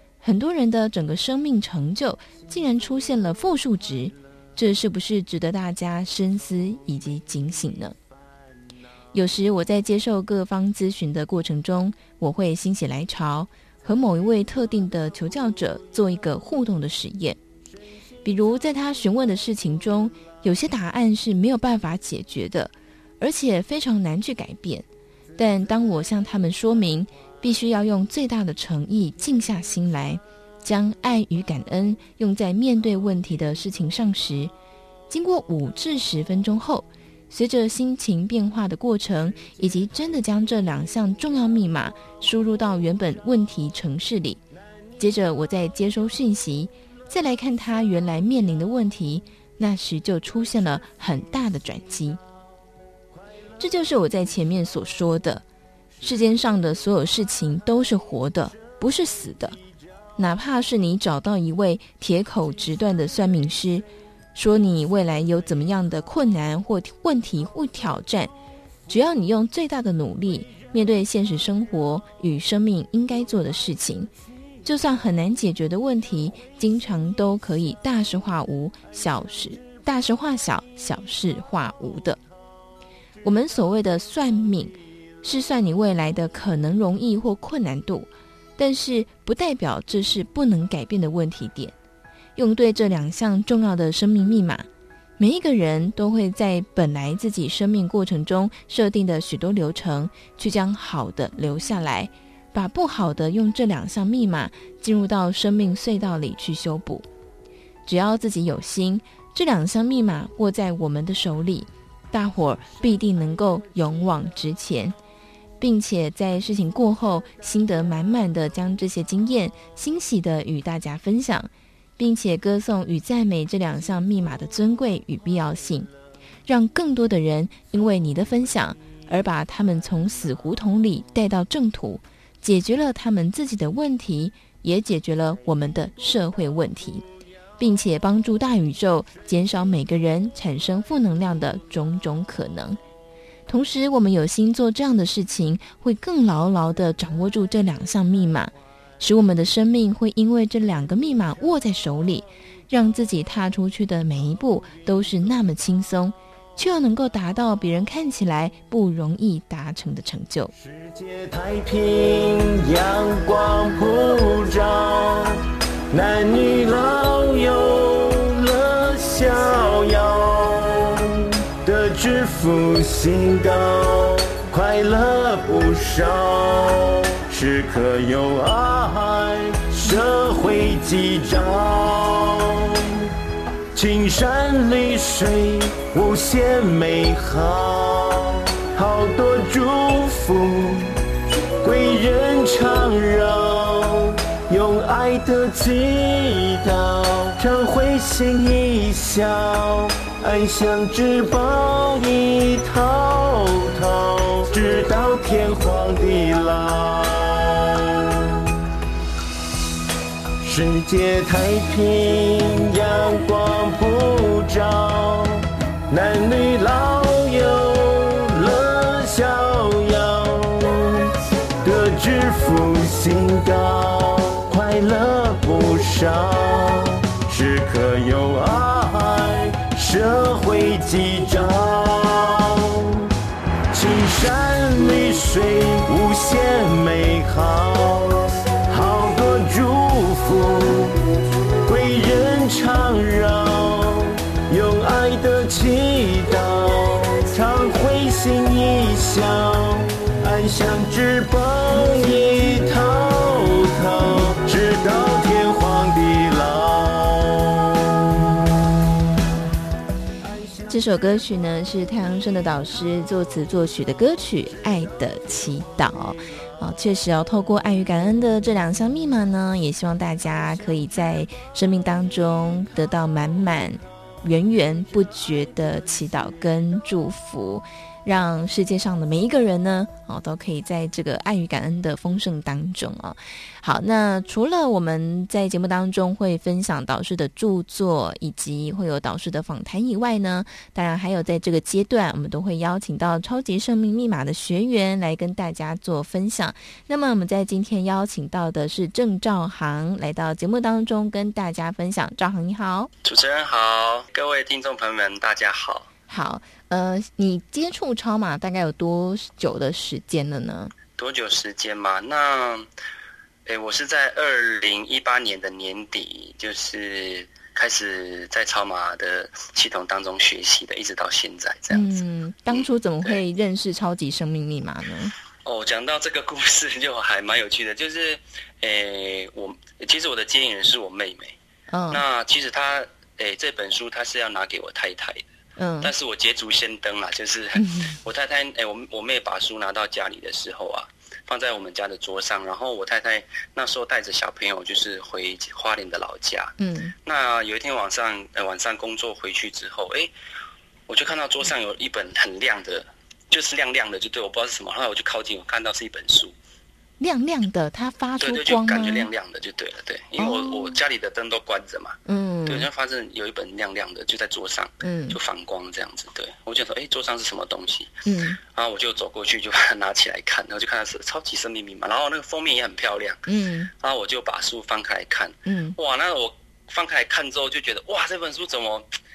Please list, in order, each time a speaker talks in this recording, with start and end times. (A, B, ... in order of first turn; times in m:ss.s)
0:00.2-0:08.0 A
0:09.1-0:17.4 A
0:18.2-0:24.9 A
0:25.4-0:34.5 A
0:35.1-0:44.4 A
0:45.0-0:52.2 A
0:53.6-0:55.4 A
0:56.0-0:59.6 A
1:00.2-1:08.3 A
1:08.9-1:14.1 A
1:14.6-1:22.2 A
1:23.2-1:31.8 A
1:32.4-1:34.7 A
1:35.2-1:47.0 A
1:47.9-1:55.0 A
1:55.6-2:05.9 A
2:06.5-2:17.0 A
2:17.6-2:22.8 A
2:23.5-2:40.5 A
2:40.6-3:03.1 B
3:03.7-3:11.0 B
3:11.6-3:28.2 B
3:30.4-3:53.1 B
3:53.7-4:01.0 B
4:01.7-4:18.5 B
4:20.7-5:02.9 A
5:03.0-5:05.9 C
5:06.1-5:10.7 A
5:11.0-5:12.7 C
5:13.5-5:23.2 C
5:21.7-5:25.1 A
5:25.4-5:31.4 C
5:31.7-5:32.0 A
5:31.9-5:35.2 C
5:35.6-5:35.9 A
5:35.8-5:50.1 C
5:37.6-5:37.9 A
5:46.6-5:46.9 A
5:50.9-5:56.3 C
5:57.0-5:59.1 A
5:58.2-6:07.9 C
6:00.2-6:00.8 A
6:02.1-6:02.7 A
6:04.8-6:05.2 A
6:08.1-6:08.4 A
6:08.4-6:18.9 C
6:13.3-6:13.7 A
6:15.5-6:15.8 A